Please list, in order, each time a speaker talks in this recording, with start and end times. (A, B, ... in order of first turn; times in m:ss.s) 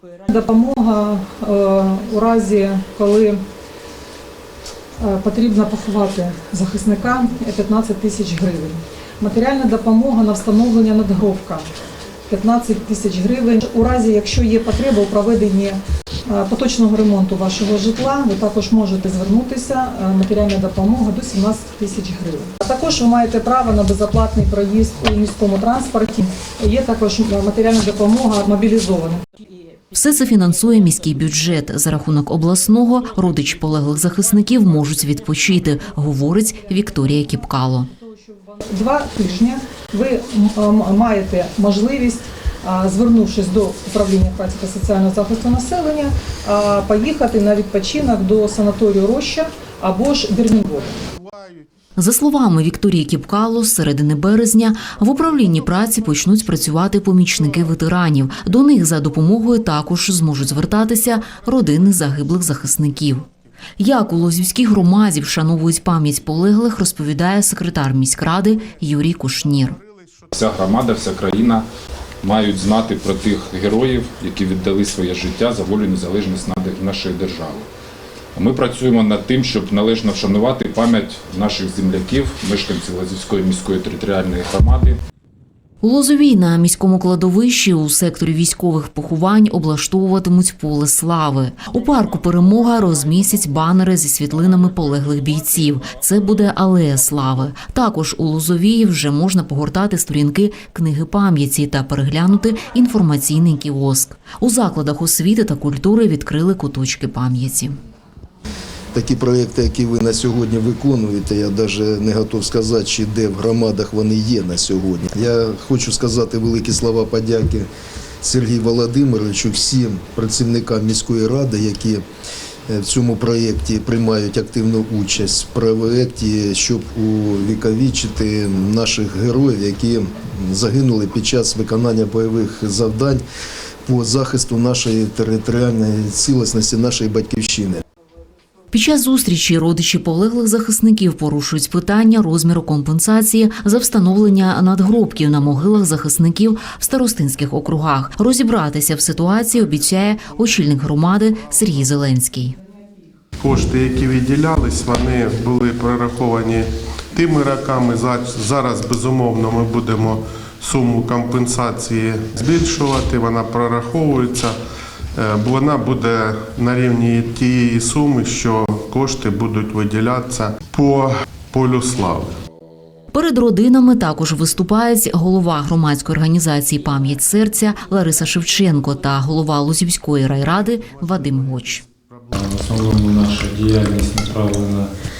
0:00.3-0:03.4 A
0:05.0-0:11.7 A
0:12.3-0:29.2 A
0:29.9-0:37.9 B
0:37.9-0:51.0 A
0:52.0-1:03.3 B
1:03.8-1:09.8 B
1:10.3-1:11.6 C
1:12.2-1:17.7 C
1:18.4-1:25.0 C
1:25.8-1:47.8 B
1:48.9-1:57.7 D
1:58.2-2:02.0 D
2:02.7-2:13.2 D
2:13.8-2:17.8 D
2:18.7-2:32.6 B
2:33.4-2:44.6 E
2:45.1-2:52.4 E
2:53.1-3:01.8 B
3:02.3-3:04.9 F